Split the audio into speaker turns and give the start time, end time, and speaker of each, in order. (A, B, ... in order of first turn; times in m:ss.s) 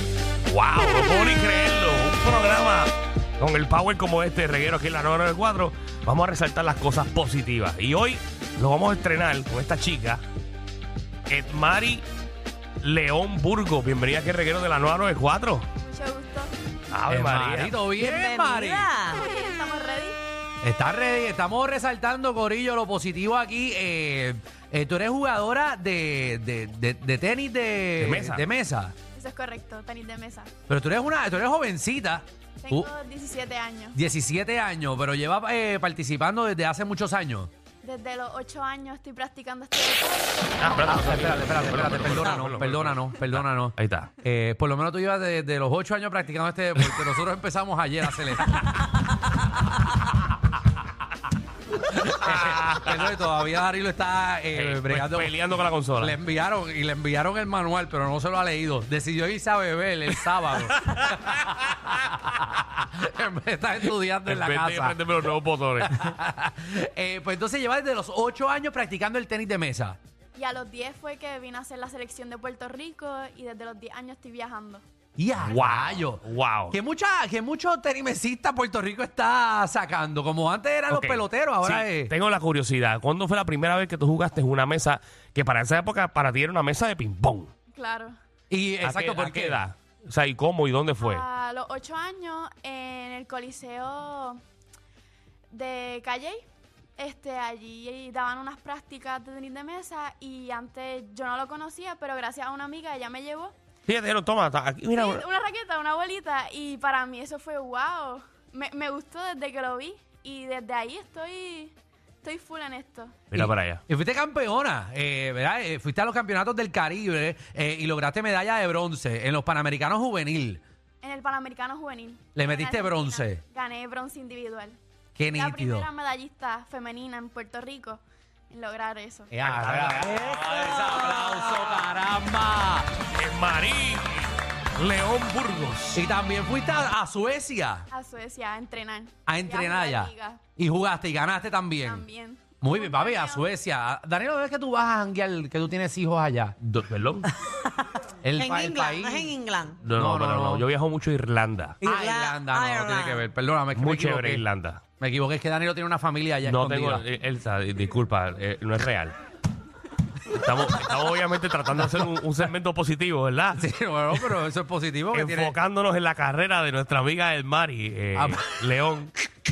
0:00.5-0:10.2 A
0:11.3-0:12.0 A
0:12.8-0:15.7 A
0:15.8-0:16.5 B
0:16.9-0:17.8 A
0:17.1-0:18.9 C
0:18.0-0:19.2 D
0:19.0-0:20.2 B
0:20.6-0:28.9 C
0:28.0-0:28.5 A
0:29.2-0:30.5 B
0:30.7-0:32.9 C
0:32.6-0:34.0 B
0:33.9-0:37.5 C
0:37.8-0:40.8 B
0:40.6-0:44.1 A
0:40.9-0:49.0 C
0:51.7-0:55.3 C
0:52.2-0:53.1 A
0:54.5-0:56.2 A
0:56.0-1:10.0 C
1:00.8-1:01.6 A
1:04.2-1:06.1 A
1:10.3-1:14.8 B
1:15.2-1:22.1 C
1:15.4-1:16.8 A
1:20.9-1:27.5 A
1:27.7-1:28.2 B
1:28.5-1:29.6 C
1:28.8-1:31.2 A
1:31.0-1:34.4 B
1:35.5-1:36.4 B
1:37.0-1:43.5 B
1:43.9-1:45.3 A
1:44.9-1:53.2 B
1:53.3-1:53.8 A
1:53.3-2:00.6 C
2:01.0-2:04.8 B
2:02.3-2:03.4 C
2:05.2-2:05.9 C
2:05.3-2:09.3 B
2:09.3-2:13.0 C
2:09.4-2:11.0 A
2:13.1-2:16.1 A
2:15.9-2:17.9 C
2:17.9-2:20.4 B
2:19.3-2:22.1 C
2:21.8-2:23.5 B
2:22.6-2:26.6 C
2:26.6-2:27.3 A
2:28.2-2:29.3 C
2:28.3-2:29.8 D
2:29.8-2:31.8 A
2:29.9-2:30.6 C
2:31.8-2:33.3 D
2:31.8-2:34.4 C
2:33.7-2:34.8 A
2:35.0-2:37.0 C
2:36.4-2:39.2 A
2:40.3-2:44.2 A
2:43.6-2:45.5 C
2:45.1-2:49.2 A
2:48.2-2:48.6 C